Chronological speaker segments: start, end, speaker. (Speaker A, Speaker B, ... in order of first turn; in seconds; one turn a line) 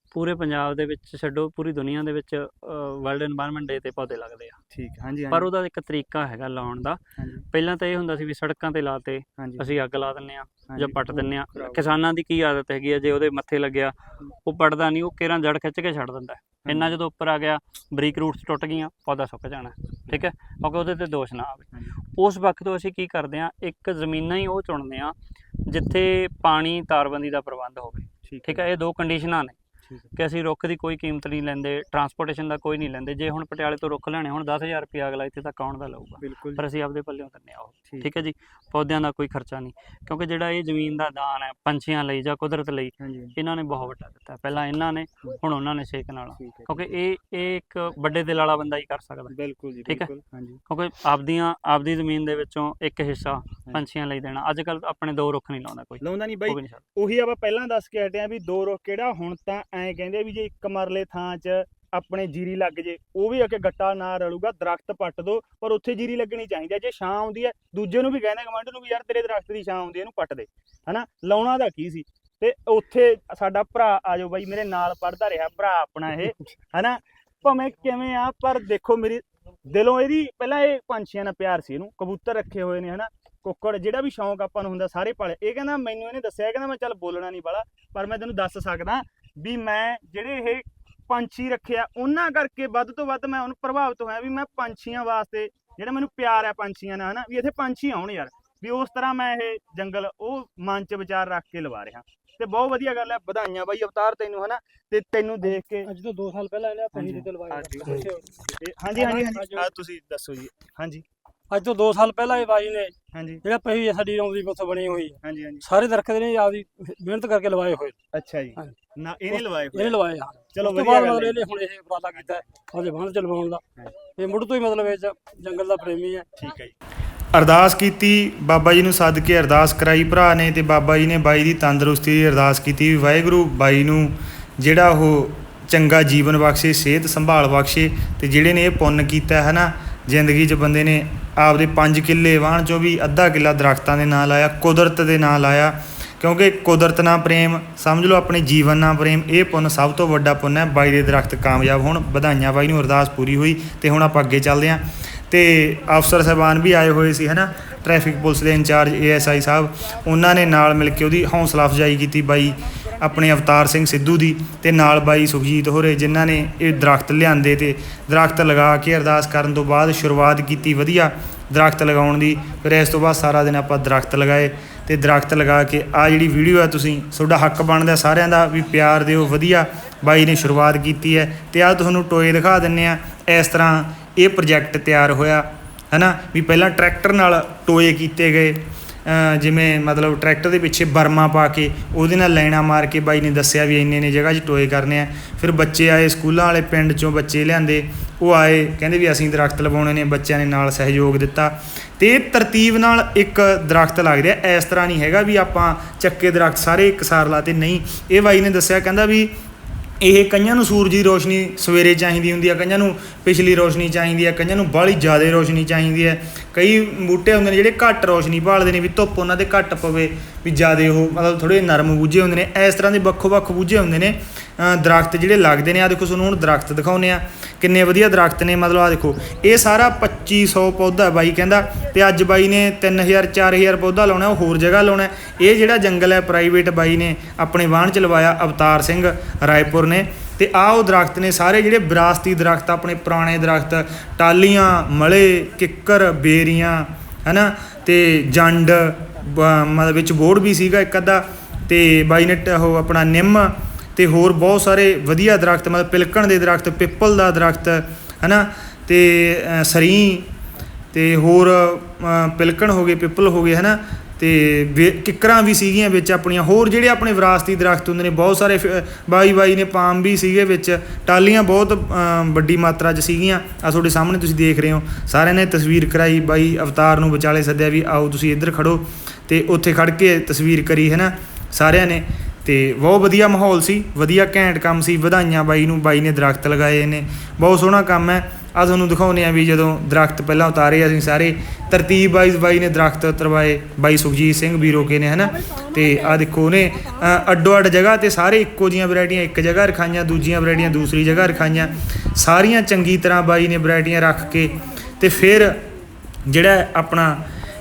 Speaker A: 0.1-4.6
Speaker B: 4.7-5.5
Speaker A: 5.3-7.0
Speaker B: 7.2-7.4
Speaker A: 7.5-29.6
Speaker B: 9.4-9.6
Speaker B: 10.7-11.9
Speaker B: 16.6-16.9
Speaker B: 28.2-28.6
Speaker A: 30.1-49.3
Speaker B: 36.2-36.6
Speaker B: 43.0-43.3
Speaker B: 46.4-46.9
Speaker B: 49.3-50.6
Speaker A: 50.7-56.8
Speaker B: 56.0-105.9
Speaker C: 105.8-109.7
Speaker B: 106.9-108.1
Speaker B: 108.6-111.0
Speaker C: 111.5-117.9
Speaker B: 113.1-113.4
Speaker B: 115.2-115.6
Speaker B: 118.1-119.9
Speaker C: 119.3-126.3
Speaker B: 120.5-121.4
Speaker B: 126.4-126.7
Speaker B: 127.3-209.3
Speaker B: 210.0-260.3
Speaker B: 260.9-305.6
Speaker B: 306.2-307.2